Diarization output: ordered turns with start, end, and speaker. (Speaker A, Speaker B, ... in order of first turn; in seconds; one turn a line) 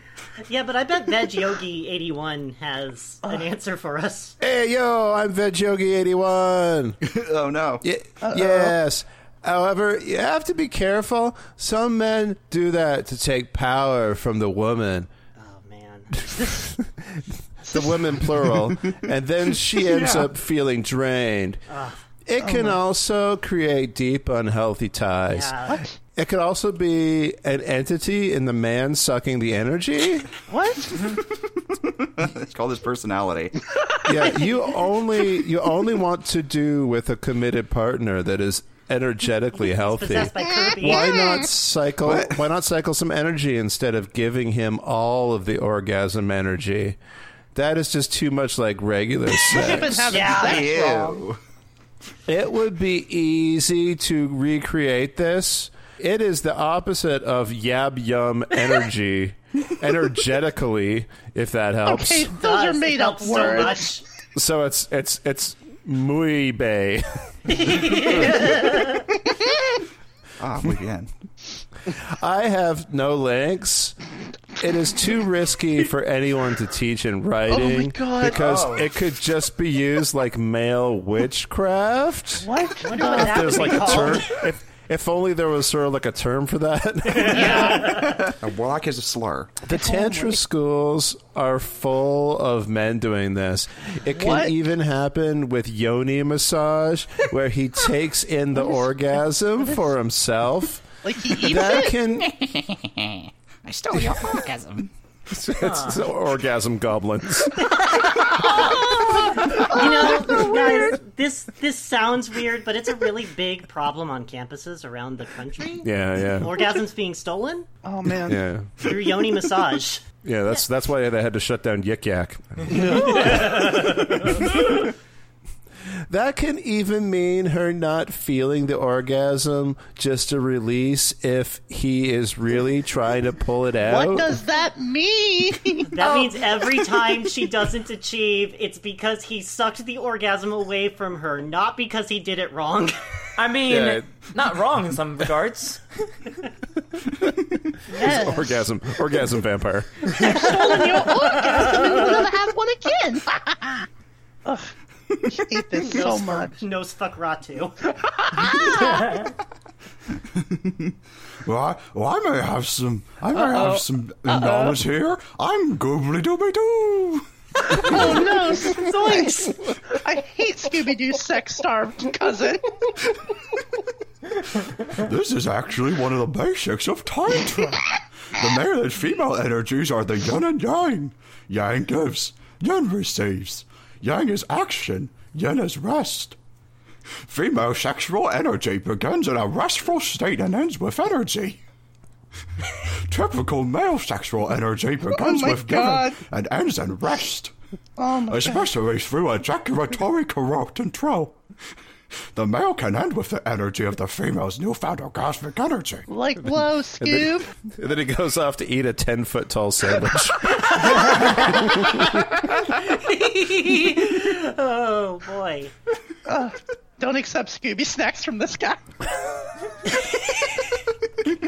Speaker A: 0.4-4.3
Speaker B: 4.4-7.0
Speaker C: 7.0-7.8
Speaker B: 7.8-15.1
Speaker D: 8.2-8.7
Speaker A: 15.4-16.1
Speaker B: 16.3-21.6
Speaker D: 17.7-18.0
Speaker C: 19.8-20.3
Speaker A: 21.7-21.9
Speaker B: 22.2-25.5
Speaker D: 22.4-22.8
Speaker A: 25.3-25.8
Speaker B: 26.1-30.3
Speaker D: 30.5-31.1
Speaker C: 31.7-33.6
Speaker B: 34.0-47.0
Speaker A: 39.8-41.4
Speaker D: 40.8-41.4
Speaker C: 42.0-42.4
Speaker B: 47.5-50.2
Speaker D: 49.5-51.2
Speaker A: 50.1-51.0
Speaker C: 50.2-51.4
Speaker B: 52.3-62.3
Speaker D: 61.9-64.0
Speaker A: 62.3-64.0
Speaker B: 64.3-67.9
Speaker A: 67.5-69.1
Speaker C: 70.4-71.1
Speaker B: 71.9-74.0
Speaker B: 74.6-82.5
Speaker D: 77.5-78.4
Speaker E: 78.2-78.9
Speaker D: 82.4-84.2
Speaker A: 82.8-84.4
Speaker B: 83.0-87.8
Speaker A: 87.1-88.3
Speaker D: 87.3-87.9
Speaker C: 87.9-89.5
Speaker B: 89.6-102.3
Speaker D: 89.7-90.4
Speaker D: 94.1-94.5
Speaker D: 101.0-101.9
Speaker C: 102.2-104.9
Speaker B: 105.3-107.7
Speaker E: 105.6-106.0
Speaker A: 107.6-117.7
Speaker D: 108.3-111.0
Speaker B: 115.8-116.6
Speaker D: 117.8-118.4
Speaker B: 118.2-118.7
Speaker A: 118.8-120.6
Speaker B: 120.2-124.8
Speaker D: 122.7-123.4
Speaker A: 122.9-124.5
Speaker B: 126.1-134.3
Speaker D: 133.8-136.8
Speaker A: 135.9-143.0
Speaker E: 143.4-146.3
Speaker B: 143.7-144.0
Speaker D: 147.9-148.6
Speaker B: 147.9-150.2
Speaker D: 150.1-153.9
Speaker A: 150.2-152.3
Speaker D: 154.4-154.7
Speaker D: 155.2-156.5
Speaker A: 155.8-157.8
Speaker D: 158.0-159.3
Speaker C: 160.3-167.3
Speaker D: 163.3-164.8
Speaker D: 167.7-172.8
Speaker C: 167.8-168.2
Speaker A: 168.7-169.6
Speaker C: 174.8-186.4
Speaker C: 187.2-191.6
Speaker C: 192.8-197.5
Speaker D: 195.1-196.2
Speaker D: 198.0-198.7
Speaker C: 198.3-201.4
Speaker C: 202.3-206.1
Speaker D: 206.1-207.5
Speaker B: 206.4-212.2
Speaker A: 210.7-211.9
Speaker A: 212.6-215.7
Speaker D: 216.2-219.0
Speaker A: 219.9-220.7